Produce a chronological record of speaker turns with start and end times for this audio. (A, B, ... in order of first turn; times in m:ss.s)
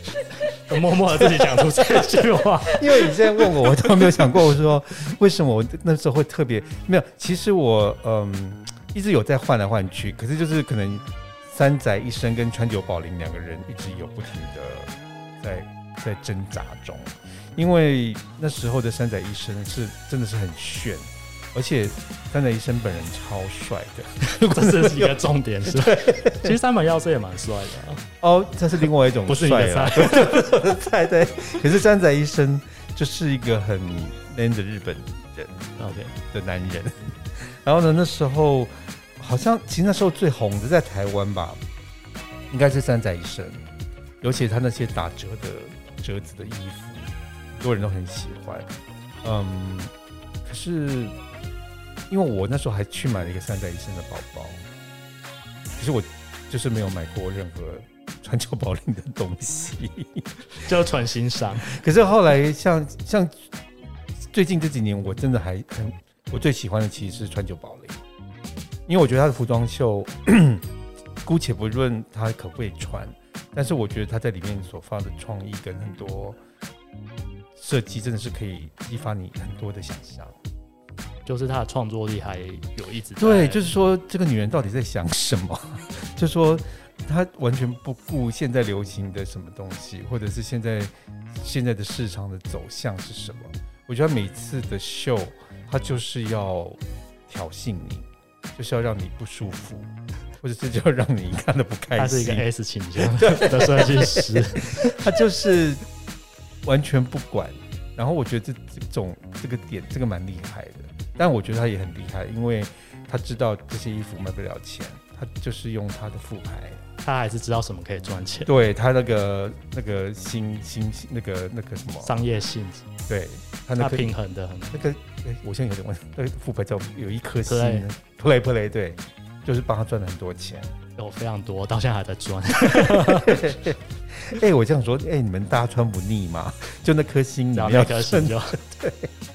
0:00.5-0:03.2 A
0:01.1-0:26.6 B
0:24.2-0:28.0 A
0:28.2-0:35.6 B
0:29.3-0:30.5 A
0:35.8-0:36.2 A
0:36.3-0:41.6 B
0:42.5-0:43.6 B
0:44.2-0:48.7 B
0:49.2-0:49.9 B
0:50.4-0:51.2 B
0:52.1-0:54.6 B
0:55.8-1:00.3 B
1:00.6-1:01.7 A
1:01.6-1:03.4 B
1:04.3-1:08.0 B
1:08.9-1:10.7 B
1:11.2-1:16.4 B
1:17.6-1:20.4 B
1:21.3-1:23.7 A
1:23.2-1:42.4 B
1:42.0-1:45.0 A
1:43.0-1:45.8 B
1:46.6-1:56.8 B
1:57.0-1:58.5 A
1:58.5-2:02.1 B
2:02.0-2:02.9 A
2:03.1-2:04.1 B
2:03.8-2:04.8 A
2:04.7-2:10.7 B
2:07.5-2:07.9 A
2:11.0-2:13.6 A
2:12.7-2:19.1 B
2:17.5-2:18.6 A